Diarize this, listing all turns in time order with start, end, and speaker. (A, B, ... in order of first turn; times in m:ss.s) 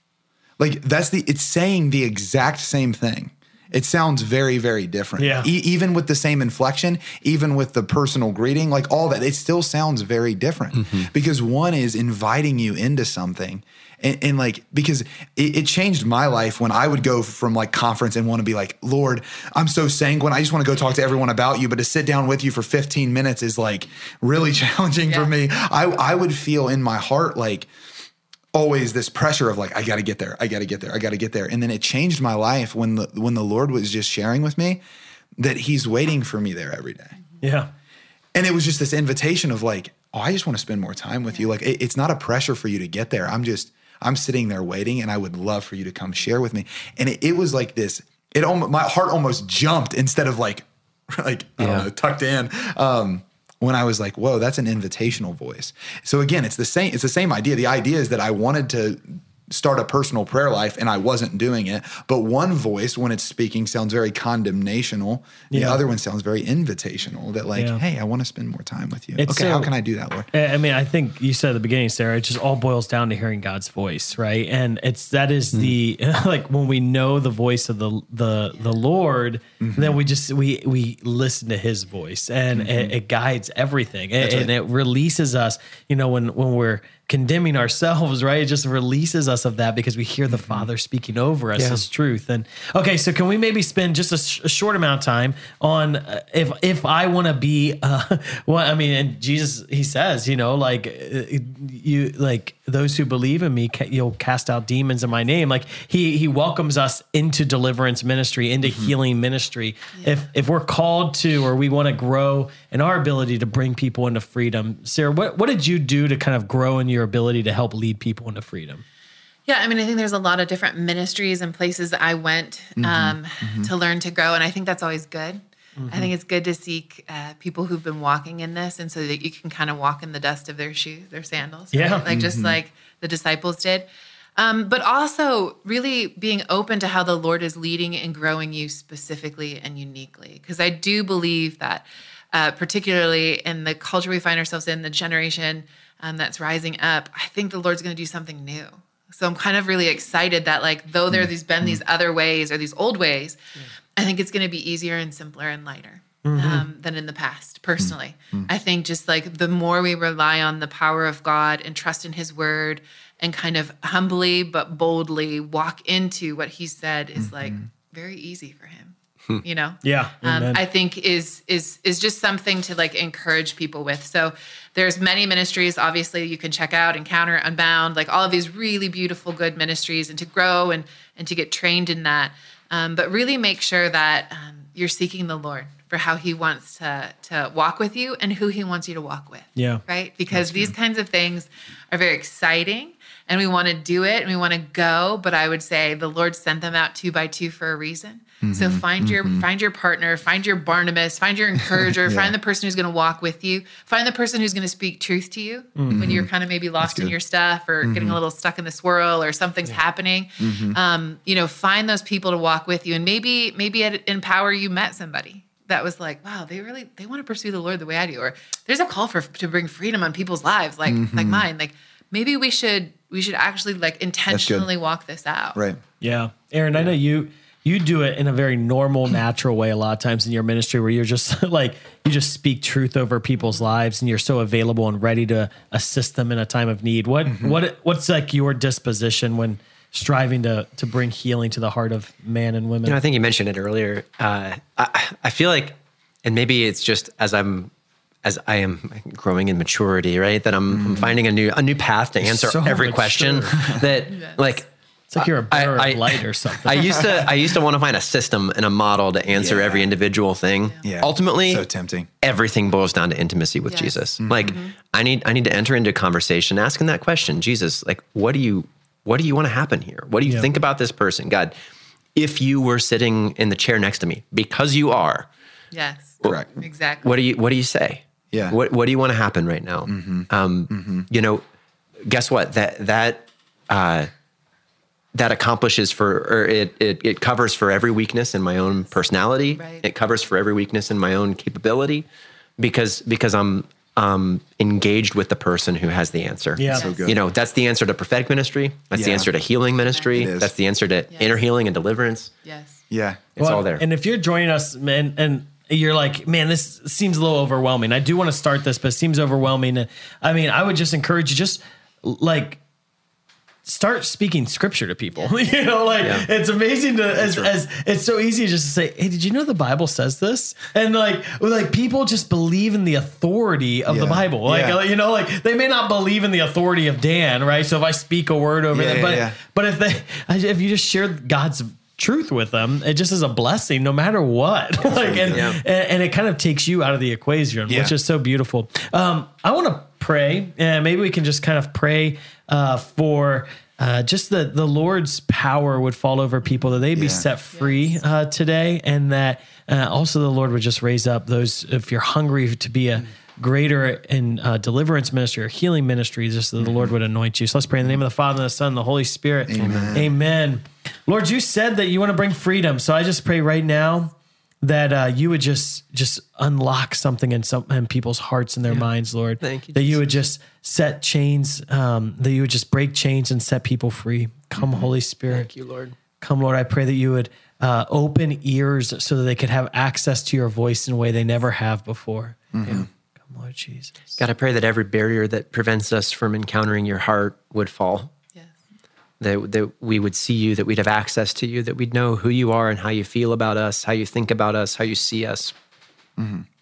0:00.6-0:27.7 A
0:05.2-0:05.5 B
0:10.8-0:11.0 C
0:28.5-0:34.8 A
0:35.4-0:37.2 A
0:37.4-0:37.7 B
0:38.3-1:10.3 A
0:51.6-0:51.9 C
1:05.5-1:05.8 B
1:07.6-1:07.8 B
1:09.2-1:09.7 B
1:10.3-1:58.8 B
1:19.6-1:20.0 A
1:22.5-1:22.9 A
1:24.2-1:24.5 A
1:30.3-1:30.7 A
1:31.6-1:31.8 C
1:48.6-1:48.9 A
1:50.0-1:50.2 D
1:59.5-2:33.4 D
2:02.8-2:03.7 A
2:05.8-2:06.1 B
2:11.7-2:12.0 B
2:12.1-2:12.6 A
2:31.1-2:31.8 A
2:34.0-3:45.6 D
2:36.2-2:36.6 B
2:37.8-2:38.5 A
2:47.2-2:47.6 A
2:49.8-2:50.6 B
3:09.6-3:09.8 B
3:10.3-3:10.7 A
3:18.4-3:19.4 A
3:21.7-3:22.3 A
3:25.8-3:26.1 B
3:25.9-3:26.3 A
3:26.8-3:27.1 A
3:27.8-3:28.2 A
3:30.4-3:30.8 A
3:40.8-3:41.4 A
3:44.3-3:44.7 A
3:46.0-4:03.0 B
3:53.4-3:53.7 D
3:57.2-3:57.6 A
4:02.8-4:07.7 C
4:08.2-4:21.6 C
4:10.7-4:11.2 A
4:12.2-4:13.6 B
4:14.1-4:14.6 D
4:15.1-4:16.9 B
4:19.3-4:19.9 A
4:20.8-4:22.1 A
4:22.2-4:31.5 C
4:23.7-4:24.7 D
4:24.2-4:24.6 A
4:32.2-4:35.3 C
4:35.7-4:37.1 D
4:37.0-4:41.4 C
4:39.8-4:41.0 A
4:42.0-4:44.1 C
4:45.1-4:52.1 C
4:48.5-4:48.9 D
4:49.5-4:49.9 D
4:52.6-5:02.3 C
4:56.6-4:56.8 B
4:56.7-4:57.2 A
4:56.7-4:57.1 D
4:58.9-4:59.3 A
4:59.9-5:00.3 D
5:00.1-5:00.5 A
5:01.1-5:01.4 D
5:02.4-5:02.8 D
5:02.9-5:03.2 A
5:03.4-5:03.8 C
5:03.4-5:12.6 B
5:13.6-6:15.5 B
5:15.1-5:16.1 D
5:17.1-5:17.5 A
5:23.9-5:24.8 A
5:28.7-5:29.4 A
5:34.8-5:35.5 A
5:35.3-5:35.6 C
5:37.7-5:37.9 A
5:46.9-5:47.2 A
5:47.5-5:48.0 D
5:56.6-5:56.9 A
5:59.5-6:00.1 A
5:59.6-5:59.9 C
6:09.4-6:10.1 C
6:15.3-6:15.9 C
6:16.2-6:22.5 B
6:22.5-6:22.9 A
6:23.3-6:24.2 B
6:24.2-6:28.1 C
6:29.2-6:35.5 C
6:36.2-6:36.4 A